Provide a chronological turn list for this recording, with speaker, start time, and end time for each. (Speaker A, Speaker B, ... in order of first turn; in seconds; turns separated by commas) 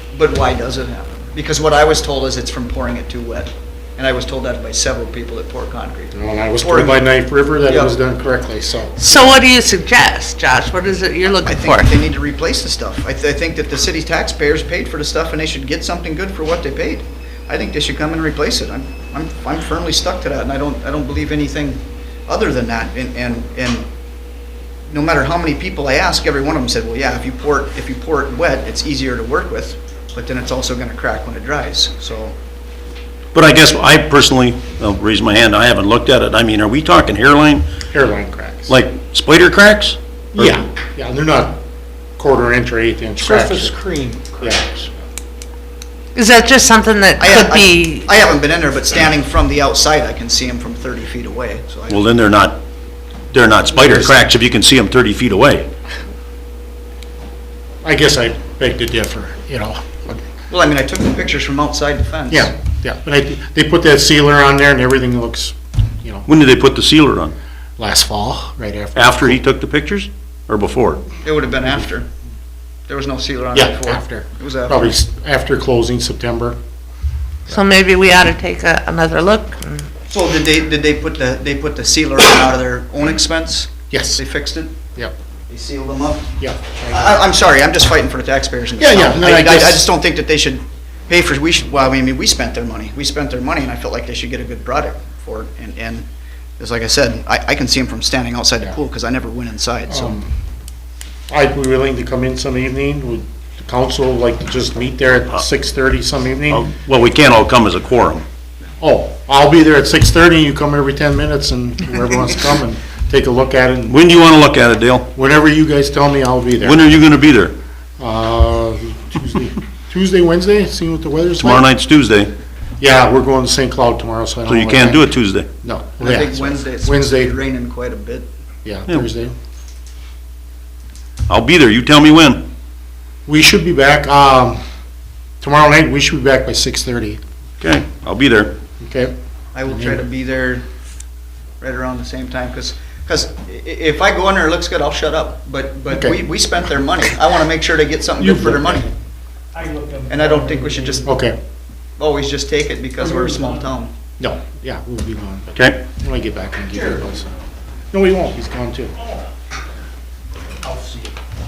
Speaker A: 0.1-7.0, Speaker B: 6.1-9.0, Speaker A: 7.7-7.9, Speaker C: 9.0-11.9, Speaker A: 11.4-23.9, Speaker A: 24.9-32.3, Speaker D: 33.3-37.6, Speaker B: 37.9-38.7, Speaker D: 38.7-40.6, Speaker B: 40.3-41.6, Speaker B: 42.2-43.7, Speaker E: 43.2-44.4, Speaker B: 44.3-44.6, Speaker C: 46.1-48.1, Speaker A: 47.2-52.0, Speaker D: 51.9-52.6, Speaker D: 53.3-55.7, Speaker B: 53.8-54.1, Speaker B: 57.8-60.2, Speaker A: 60.5-62.5, Speaker B: 62.3-66.3, Speaker D: 66.2-67.3, Speaker B: 67.8-69.4, Speaker D: 69.0-71.0, Speaker A: 71.2-72.1, Speaker A: 72.9-74.8, Speaker B: 73.5-76.6, Speaker C: 77.5-79.9, Speaker A: 80.1-84.7, Speaker B: 83.9-84.2, Speaker A: 85.5-86.4, Speaker B: 86.4-87.2, Speaker A: 86.9-96.0, Speaker B: 88.8-89.9, Speaker A: 96.6-100.2, Speaker B: 99.9-100.3, Speaker B: 101.3-106.7, Speaker D: 106.5-108.2, Speaker B: 108.8-114.0, Speaker D: 113.9-115.1, Speaker B: 115.1-116.8, Speaker D: 116.6-117.5, Speaker B: 118.0-121.7, Speaker D: 121.4-122.3, Speaker B: 122.8-125.1, Speaker D: 124.5-125.5, Speaker B: 125.6-127.3, Speaker A: 126.0-128.3, Speaker B: 128.6-129.3, Speaker D: 131.3-132.4, Speaker B: 133.2-134.6, Speaker B: 135.4-137.2, Speaker D: 137.6-138.5, Speaker B: 138.8-139.1, Speaker A: 139.5-140.6, Speaker B: 139.7-140.0, Speaker A: 141.6-148.9, Speaker B: 145.9-146.2, Speaker B: 148.2-148.9, Speaker E: 149.5-151.1, Speaker A: 150.1-151.1, Speaker B: 151.0-151.4, Speaker A: 152.0-153.9, Speaker E: 153.0-153.7, Speaker B: 154.2-157.3, Speaker D: 155.5-155.8, Speaker E: 156.8-157.0, Speaker B: 157.9-158.9, Speaker E: 160.6-161.1